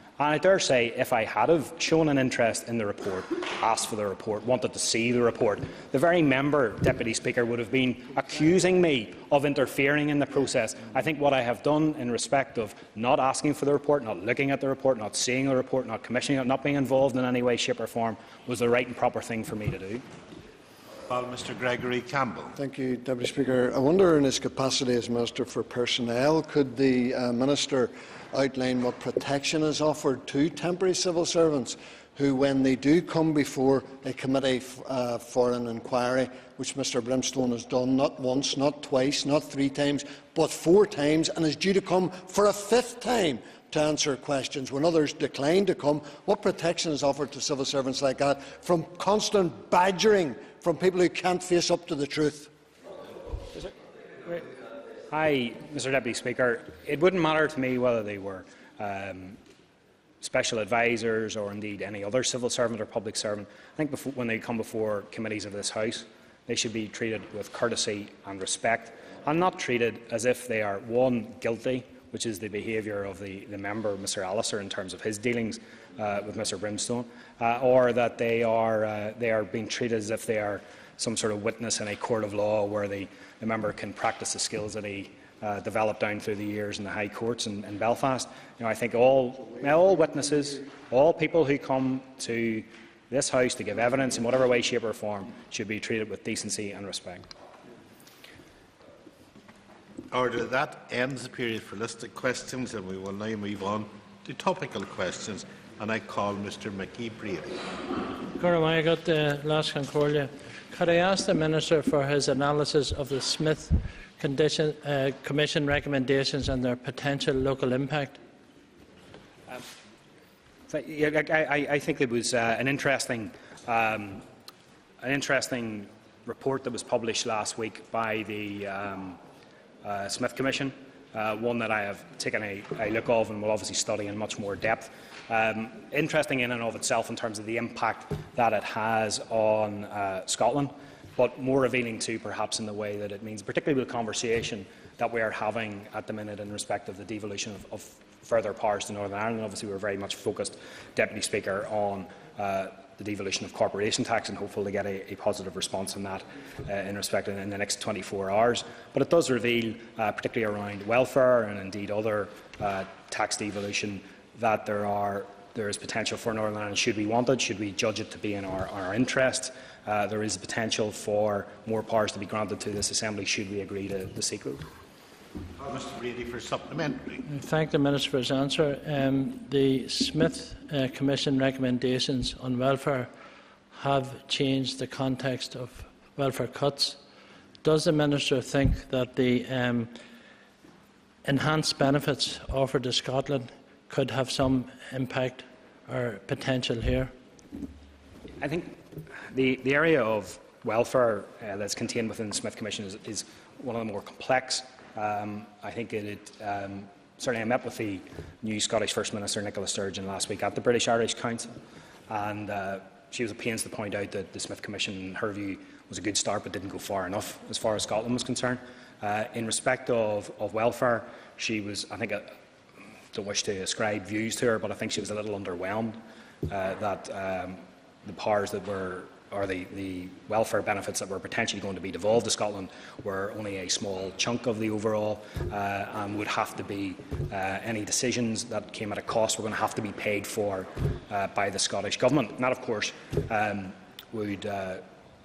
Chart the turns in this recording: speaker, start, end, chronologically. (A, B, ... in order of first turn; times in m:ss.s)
0:00.2-0:20.0 A
0:21.1-0:22.6 B
0:22.6-0:52.5 C
0:55.1-0:59.4 A
1:00.2-1:37.3 A
1:40.1-1:47.6 B
1:48.4-1:58.2 D
2:00.7-2:04.3 A
2:05.0-2:09.2 A
2:09.8-2:54.6 A
2:55.6-2:57.2 B
2:57.3-3:03.1 D
3:03.7-3:07.0 D
3:07.6-3:09.9 D
3:11.2-3:17.1 D
3:18.4-3:31.5 A
3:32.1-3:42.3 A
3:43.1-4:04.8 A